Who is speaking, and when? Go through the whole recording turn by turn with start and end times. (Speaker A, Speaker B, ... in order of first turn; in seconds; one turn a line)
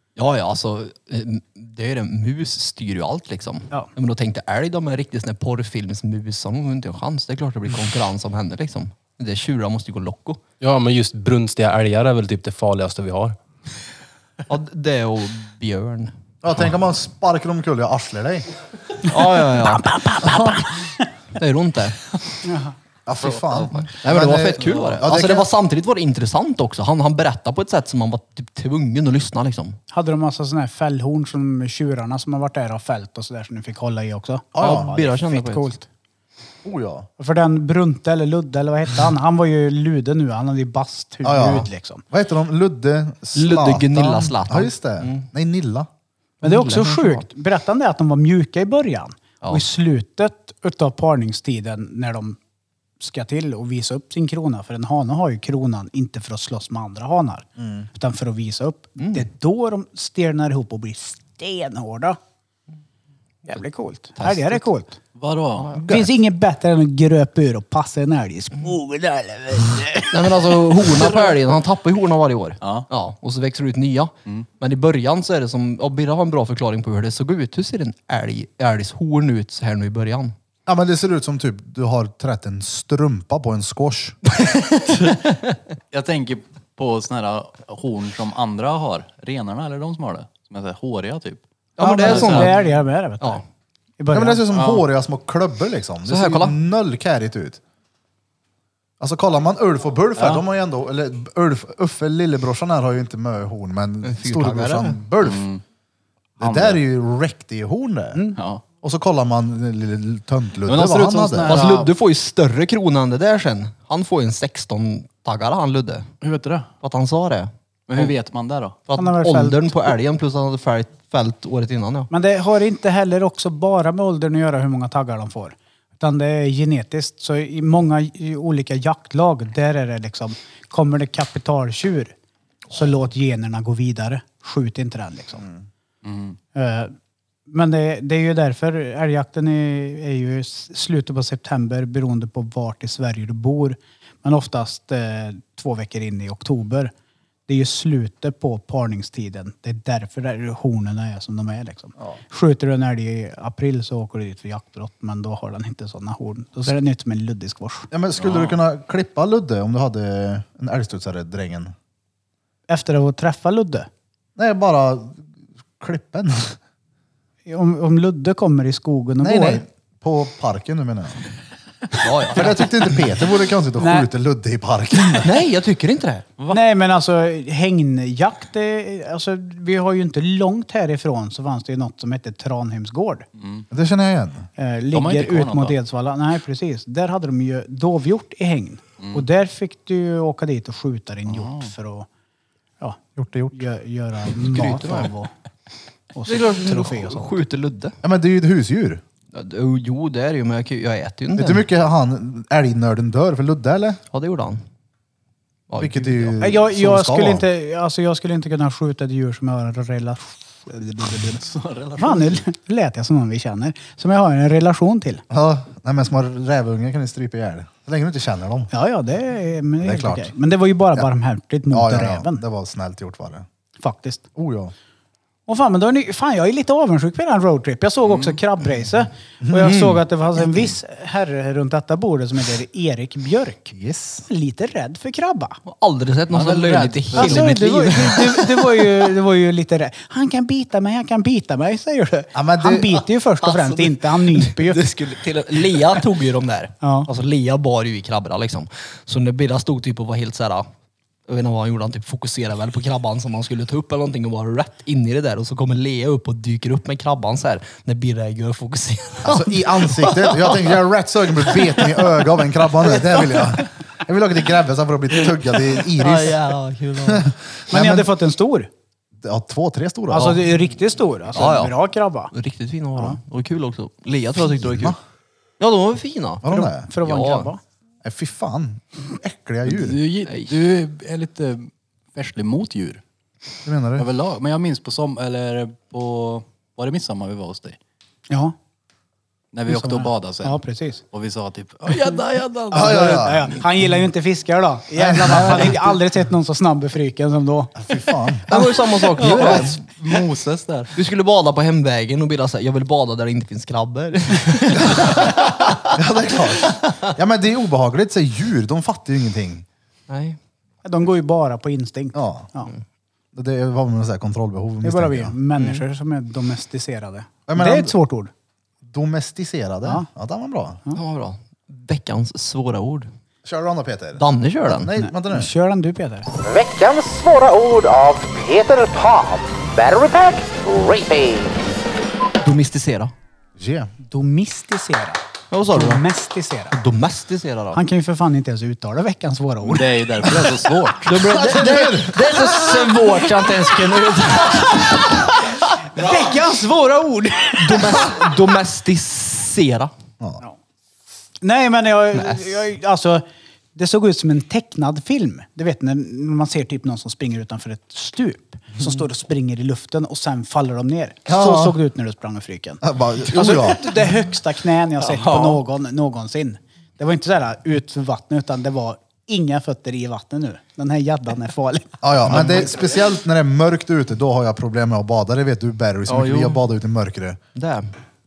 Speaker A: 0.1-10.4
Speaker B: 10.6-13.4
Speaker A: 14.5-16.1
Speaker C: 16.4-18.4
Speaker D: 19.0-21.1
Speaker A: 19.1-19.9
Speaker C: 20.2-20.5
Speaker A: 21.4-22.1
Speaker D: 22.4-22.7
Speaker C: 23.1-25.5
Speaker E: 23.2-23.9
Speaker A: 23.7-29.8
Speaker E: 24.6-25.0
Speaker D: 29.9-35.9
Speaker C: 34.5-34.9
Speaker A: 34.6-35.7
Speaker C: 36.6-37.1
Speaker D: 37.2-42.0
Speaker C: 41.2-45.9
Speaker A: 43.3-45.3
Speaker A: 46.4-47.2
Speaker D: 46.4-52.4
Speaker D: 53.0-62.2
Speaker C: 57.6-57.9
Speaker A: 59.0-59.2
Speaker D: 63.5-65.0
Speaker A: 64.2-64.7
Speaker E: 65.2-65.8
Speaker C: 65.8-66.1
Speaker D: 65.8-71.0
Speaker A: 70.1-80.3
Speaker E: 72.6-72.9
Speaker C: 80.7-84.2
Speaker A: 84.3-85.3
Speaker E: 84.9-85.2
Speaker E: 85.9-91.4
Speaker A: 91.8-92.6
Speaker D: 91.8-93.4
Speaker E: 92.0-92.5
Speaker D: 94.0-94.4
Speaker C: 94.1-97.6
Speaker E: 94.5-94.8
Speaker A: 96.0-96.5
Speaker C: 99.0-105.5
Speaker E: 100.2-100.4
Speaker A: 104.0-105.0
Speaker E: 105.2-105.6
Speaker C: 106.4-108.2
Speaker E: 106.4-106.8
Speaker E: 108.3-108.6
Speaker C: 108.8-111.6
Speaker E: 110.7-111.9
Speaker A: 111.4-116.1
Speaker E: 116.2-116.7
Speaker A: 116.8-118.1
Speaker E: 117.9-118.8
Speaker A: 118.9-122.1
Speaker D: 118.9-119.9
Speaker D: 122.1-132.1
Speaker D: 132.7-135.5
Speaker E: 136.0-136.4
Speaker D: 136.5-136.9
Speaker D: 137.5-146.9
Speaker D: 147.5-157.9
Speaker C: 157.9-161.7
Speaker E: 158.2-158.6
Speaker D: 162.7-163.9
Speaker C: 164.3-165.2
Speaker C: 165.8-166.6
Speaker D: 167.4-169.6
Speaker C: 169.2-171.2
Speaker A: 172.0-172.6
Speaker C: 172.3-175.3
Speaker D: 173.8-174.1
Speaker A: 175.2-176.2
Speaker D: 176.5-183.2
Speaker E: 183.3-183.7
Speaker C: 183.7-184.5
Speaker D: 184.6-192.1
Speaker E: 184.9-185.8
Speaker E: 189.0-189.2
Speaker E: 191.3-191.7
Speaker C: 193.2-193.6
Speaker D: 193.5-195.3
Speaker A: 194.4-195.1
Speaker D: 196.1-197.3
Speaker A: 196.3-198.0
Speaker C: 198.0-199.0
Speaker A: 199.3-201.6
Speaker C: 201.3-204.0
Speaker A: 204.1-204.6
Speaker A: 205.7-206.3
Speaker C: 205.8-207.4
Speaker D: 206.4-211.4
Speaker E: 211.3-212.4
Speaker D: 212.0-215.2
Speaker C: 215.3-218.7
Speaker D: 218.7-222.4
Speaker C: 219.8-220.3
Speaker C: 221.7-223.4
Speaker D: 223.8-224.2
Speaker C: 224.3-224.7
Speaker D: 225.5-233.7
Speaker E: 228.1-228.3
Speaker C: 229.4-229.7
Speaker A: 229.6-230.0
Speaker C: 233.7-234.2
Speaker D: 234.3-235.6
Speaker A: 235.7-238.9
Speaker E: 236.3-237.5
Speaker D: 237.1-244.8
Speaker C: 242.3-243.0
Speaker A: 243.4-250.7
Speaker D: 246.8-247.1
Speaker A: 251.3-260.8
Speaker C: 259.2-268.1
Speaker A: 261.4-262.3
Speaker A: 263.1-263.4
Speaker A: 265.8-267.3
Speaker D: 267.7-268.7
Speaker C: 269.2-270.4
Speaker D: 270.1-272.3
Speaker A: 271.3-271.7
Speaker A: 272.3-274.9
Speaker C: 274.6-275.0
Speaker A: 275.6-277.5
Speaker C: 276.4-276.9
Speaker D: 276.5-277.6
Speaker C: 278.0-280.0
Speaker E: 279.6-283.0
Speaker A: 280.3-280.5
Speaker C: 283.6-284.1
Speaker E: 284.0-287.8
Speaker D: 288.3-288.5
Speaker E: 289.5-290.6
Speaker D: 289.7-291.0
Speaker E: 291.1-292.9
Speaker A: 291.9-292.9
Speaker C: 292.7-293.5
Speaker D: 292.7-297.8
Speaker C: 295.0-295.7
Speaker A: 295.3-295.8
Speaker C: 297.8-298.7
Speaker A: 298.5-299.8
Speaker E: 299.1-300.9
Speaker A: 300.9-305.9
Speaker C: 304.8-305.3
Speaker C: 305.9-309.6
Speaker A: 306.7-307.1
Speaker A: 310.1-310.4
Speaker D: 310.8-312.7
Speaker C: 312.1-312.5
Speaker C: 313.3-315.3
Speaker D: 314.8-318.3
Speaker A: 315.6-315.8
Speaker C: 317.5-317.9
Speaker C: 318.9-320.8
Speaker A: 320.9-323.1
Speaker C: 323.4-325.5
Speaker A: 324.2-324.9
Speaker D: 325.0-326.3
Speaker F: 326.4-331.7
Speaker A: 332.4-333.1
Speaker C: 333.6-333.9
Speaker D: 334.0-336.8
Speaker A: 335.5-336.0
Speaker A: 336.7-337.8
Speaker D: 337.7-339.9
Speaker E: 339.6-341.1
Speaker A: 341.0-345.2
Speaker C: 341.1-343.0
Speaker D: 345.9-348.2
Speaker A: 347.6-349.9
Speaker D: 351.4-372.0
Speaker A: 352.1-352.6
Speaker C: 361.2-361.8
Speaker C: 362.8-363.9
Speaker C: 372.0-377.4
Speaker E: 372.4-372.9
Speaker E: 376.1-376.5
Speaker A: 377.5-377.9